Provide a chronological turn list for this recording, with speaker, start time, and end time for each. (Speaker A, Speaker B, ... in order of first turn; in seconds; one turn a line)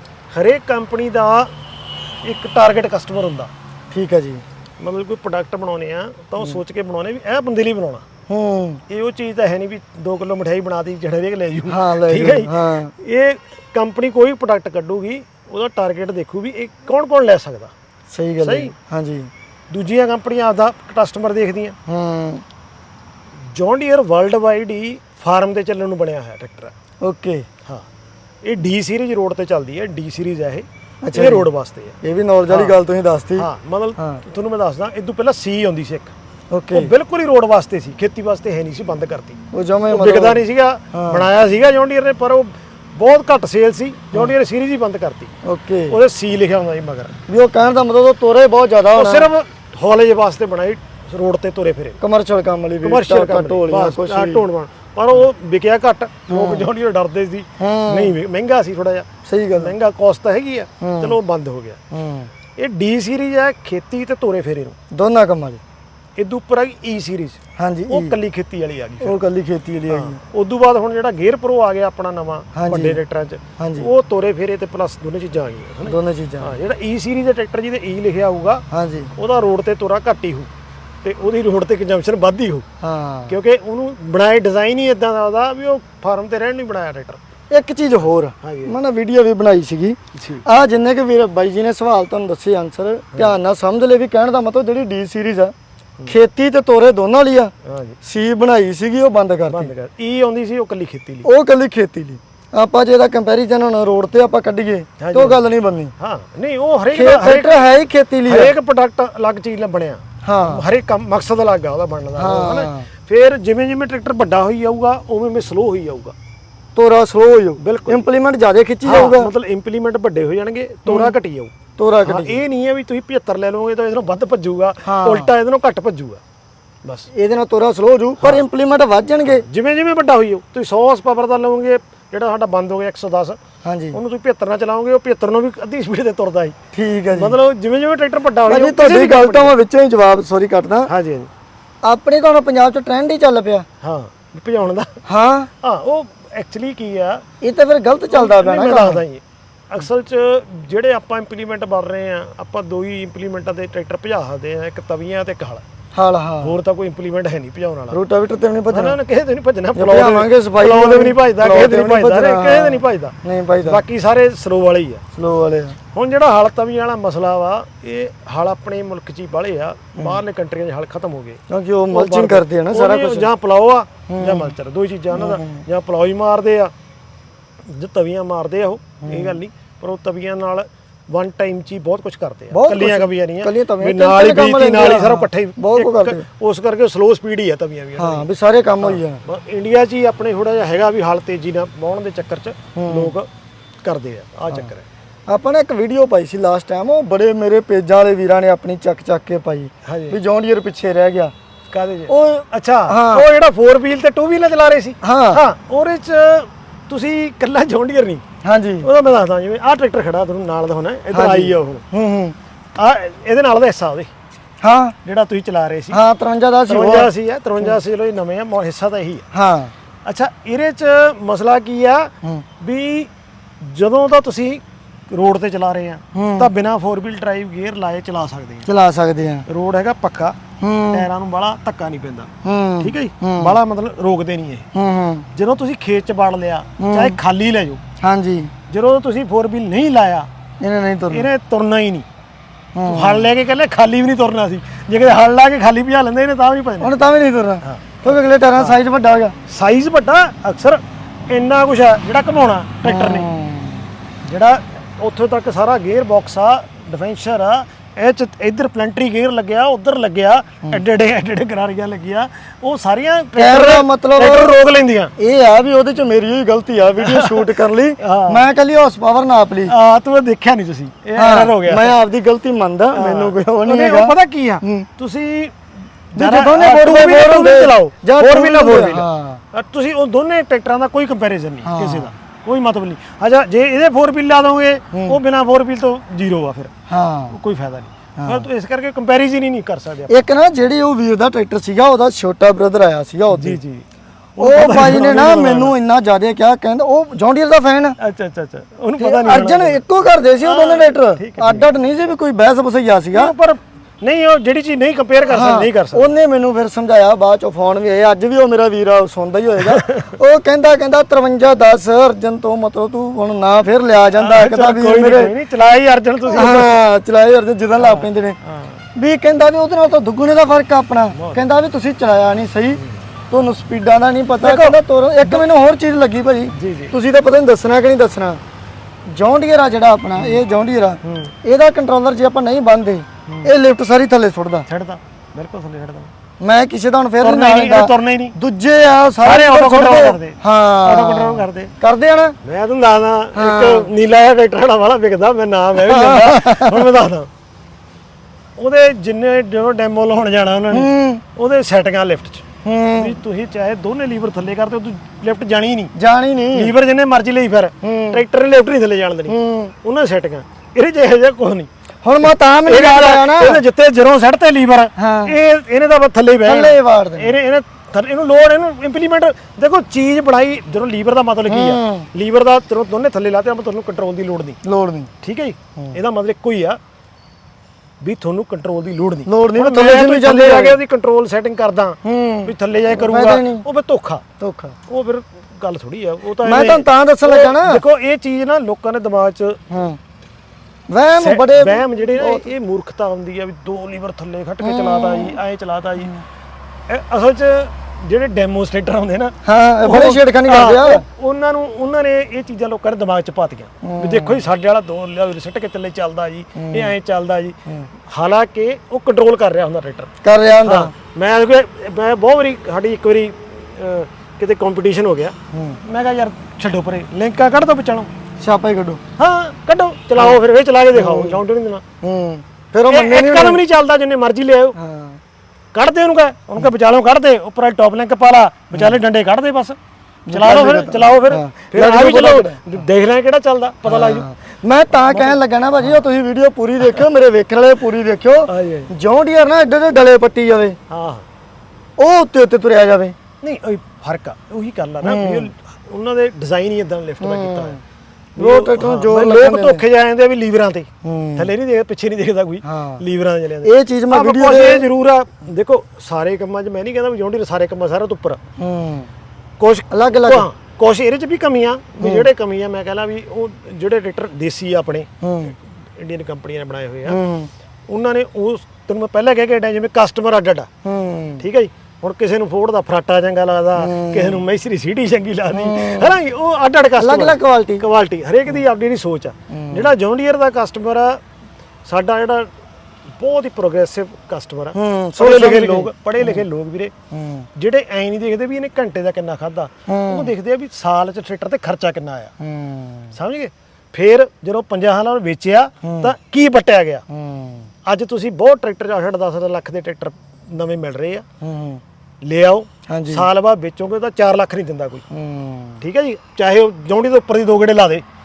Speaker A: 0.3-1.5
Speaker A: 2.2-3.5
Speaker B: 3.9-4.4
Speaker A: 4.8-8.0
Speaker B: 8.3-8.8
Speaker A: 8.9-17.7
Speaker B: 11.7-12.9
Speaker B: 18.1-19.3
Speaker A: 18.4-18.7
Speaker A: 19.7-21.8
Speaker B: 21.9-22.4
Speaker A: 23.5-26.7
Speaker B: 27.0-27.5
Speaker A: 28.4-32.8
Speaker B: 31.0-31.5
Speaker B: 32.0-34.2
Speaker A: 33.4-36.1
Speaker B: 36.5-36.9
Speaker A: 36.7-39.4
Speaker B: 39.5-40.4
Speaker A: 39.9-45.3
Speaker B: 40.9-41.3
Speaker B: 45.4-46.0
Speaker A: 45.9-47.2
Speaker B: 47.3-49.3
Speaker A: 48.9-52.0
Speaker B: 52.0-54.4
Speaker A: 52.8-61.8
Speaker B: 56.3-56.7
Speaker B: 57.6-58.1
Speaker B: 59.2-59.7
Speaker B: 60.8-61.2
Speaker B: 61.9-62.3
Speaker A: 62.6-64.8
Speaker B: 64.9-65.6
Speaker A: 66.2-69.2
Speaker B: 67.6-68.1
Speaker B: 69.0-70.2
Speaker A: 69.9-78.6
Speaker B: 72.5-73.0
Speaker B: 73.6-73.9
Speaker B: 75.8-76.5
Speaker B: 78.7-79.1
Speaker A: 79.2-80.5
Speaker A: 81.0-82.7
Speaker B: 82.8-83.4
Speaker A: 83.3-87.2
Speaker B: 87.5-95.5
Speaker A: 88.4-88.8
Speaker A: 90.1-90.4
Speaker B: 96.0-97.5
Speaker A: 97.7-98.0
Speaker B: 98.0-99.7
Speaker A: 99.5-101.3
Speaker B: 101.2-105.9
Speaker A: 105.0-105.4
Speaker A: 106.0-107.7
Speaker B: 106.9-108.5
Speaker A: 108.2-116.1
Speaker B: 110.2-110.6
Speaker B: 112.2-112.9
Speaker B: 116.8-119.3
Speaker A: 117.6-118.1
Speaker A: 118.8-121.5
Speaker B: 120.9-121.1
Speaker B: 121.8-122.4
Speaker A: 122.0-126.2
Speaker B: 124.8-125.3
Speaker B: 127.1-129.4
Speaker A: 128.2-128.4
Speaker A: 129.3-133.4
Speaker B: 133.6-134.0
Speaker A: 133.9-136.6
Speaker B: 136.7-137.4
Speaker A: 137.1-139.6
Speaker B: 138.5-140.9
Speaker A: 140.8-141.3
Speaker B: 141.8-143.6
Speaker A: 143.8-145.0
Speaker B: 145.1-145.5
Speaker A: 145.6-147.2
Speaker B: 147.4-149.0
Speaker A: 148.1-155.6
Speaker B: 155.9-156.6
Speaker A: 156.4-158.0
Speaker B: 157.9-159.0
Speaker A: 158.7-165.0
Speaker B: 159.7-163.8
Speaker B: 165.1-165.8
Speaker A: 165.9-176.7
Speaker B: 171.5-173.3
Speaker B: 174.1-174.5
Speaker B: 175.1-175.6
Speaker A: 177.7-188.3
Speaker B: 179.0-179.4
Speaker B: 182.5-186.2
Speaker B: 188.0-189.2
Speaker A: 188.8-193.3
Speaker B: 192.7-193.1
Speaker A: 193.8-194.8
Speaker B: 195.3-201.3
Speaker A: 199.8-200.2
Speaker A: 201.7-208.2
Speaker B: 202.1-203.3
Speaker B: 205.0-205.4
Speaker B: 208.4-208.9
Speaker A: 208.8-211.8
Speaker B: 211.1-212.3
Speaker A: 212.8-214.1
Speaker B: 214.6-214.9
Speaker A: 215.0-216.0
Speaker B: 215.9-217.8
Speaker A: 216.7-219.2
Speaker B: 219.3-219.7
Speaker A: 220.1-223.1
Speaker A: 223.6-228.7
Speaker B: 226.1-226.5
Speaker B: 228.7-229.4
Speaker A: 229.5-230.4
Speaker B: 230.6-231.1
Speaker A: 230.9-232.3
Speaker B: 232.4-233.6
Speaker A: 232.8-234.7
Speaker B: 234.7-235.2
Speaker A: 235.3-237.8
Speaker B: 236.8-237.2
Speaker B: 238.0-238.5
Speaker A: 238.7-240.3
Speaker B: 240.6-241.3
Speaker A: 241.1-242.1
Speaker B: 242.8-243.3
Speaker A: 242.8-246.9
Speaker B: 246.8-249.3
Speaker A: 247.6-248.8
Speaker A: 249.5-253.3
Speaker B: 252.8-253.9
Speaker A: 254.2-265.1
Speaker B: 263.4-264.6
Speaker B: 265.2-269.7
Speaker A: 267.0-268.5
Speaker A: 269.7-272.0
Speaker B: 271.1-274.9
Speaker A: 272.9-275.6
Speaker A: 276.1-286.7
Speaker B: 276.1-279.4
Speaker B: 281.6-282.1
Speaker B: 284.9-285.2
Speaker B: 286.9-287.4
Speaker A: 287.3-290.1
Speaker B: 288.2-288.4
Speaker B: 290.1-293.6
Speaker A: 293.3-293.8
Speaker A: 294.4-295.8
Speaker B: 294.4-298.0
Speaker A: 298.0-299.9
Speaker B: 299.0-303.3
Speaker A: 300.4-301.7
Speaker A: 303.1-306.1
Speaker B: 305.3-315.3
Speaker A: 309.6-310.2
Speaker A: 314.1-316.8
Speaker B: 316.3-318.4
Speaker A: 317.8-318.8
Speaker B: 318.9-328.4
Speaker A: 321.1-321.6
Speaker A: 324.4-325.4
Speaker A: 326.5-326.9
Speaker B: 329.1-334.7
Speaker A: 330.2-330.4
Speaker A: 331.0-331.3
Speaker A: 333.3-333.5
Speaker A: 334.7-336.1
Speaker B: 336.4-342.4
Speaker A: 337.2-338.3
Speaker A: 339.2-341.7
Speaker A: 342.4-347.3
Speaker B: 343.3-343.9
Speaker B: 345.8-346.8
Speaker A: 348.6-352.4
Speaker B: 350.7-351.2
Speaker B: 352.6-353.2
Speaker A: 353.0-355.9
Speaker B: 355.9-356.7
Speaker A: 356.5-361.7
Speaker B: 357.8-358.2
Speaker B: 359.3-359.7
Speaker B: 362.0-363.6
Speaker A: 362.2-374.6
Speaker B: 365.0-365.4
Speaker B: 366.4-367.4
Speaker B: 371.5-372.1
Speaker B: 374.6-375.1
Speaker A: 375.2-376.8
Speaker A: 378.0-384.2
Speaker B: 379.2-380.8
Speaker B: 382.1-383.6
Speaker B: 384.4-384.8
Speaker A: 384.9-389.6
Speaker B: 386.4-387.8
Speaker B: 389.7-390.0
Speaker B: 390.9-392.5
Speaker A: 391.2-396.1
Speaker B: 394.6-395.4
Speaker A: 396.9-407.6
Speaker B: 399.4-401.1
Speaker B: 403.8-404.5
Speaker B: 406.6-406.9
Speaker A: 408.1-410.1
Speaker B: 410.2-410.9
Speaker A: 410.6-418.1
Speaker B: 415.5-415.8
Speaker B: 418.4-419.0
Speaker A: 419.2-421.8
Speaker B: 420.9-421.4
Speaker B: 422.0-423.6
Speaker A: 422.9-424.8
Speaker B: 424.8-425.2
Speaker A: 425.7-429.8
Speaker B: 430.3-432.6
Speaker A: 430.3-434.3
Speaker B: 433.9-440.8
Speaker A: 435.0-436.0
Speaker A: 438.5-438.9
Speaker A: 440.9-441.2
Speaker B: 442.0-443.1
Speaker A: 443.4-447.8
Speaker B: 445.0-445.5
Speaker B: 447.2-447.8
Speaker A: 448.4-458.4
Speaker B: 448.4-449.8
Speaker B: 451.0-451.5
Speaker B: 452.6-453.0
Speaker B: 453.6-454.9
Speaker B: 458.6-459.1
Speaker A: 459.6-465.1
Speaker B: 459.9-460.5
Speaker B: 462.0-462.3
Speaker B: 465.2-465.5
Speaker A: 466.0-467.2
Speaker B: 467.1-467.5
Speaker A: 467.9-470.7
Speaker B: 470.8-471.4
Speaker A: 471.4-481.2
Speaker B: 473.8-474.4
Speaker B: 475.5-476.1
Speaker B: 477.0-477.9
Speaker B: 479.5-479.9
Speaker A: 481.9-482.5
Speaker A: 483.2-486.9
Speaker B: 484.7-486.4
Speaker B: 487.1-487.4
Speaker A: 487.6-492.3
Speaker B: 489.9-490.3
Speaker B: 492.4-493.1
Speaker A: 493.1-497.0
Speaker B: 495.8-496.1
Speaker B: 497.1-497.7
Speaker A: 497.9-501.2
Speaker B: 501.4-501.8
Speaker A: 502.2-505.0
Speaker B: 502.9-503.3
Speaker B: 505.1-505.8
Speaker A: 505.8-508.0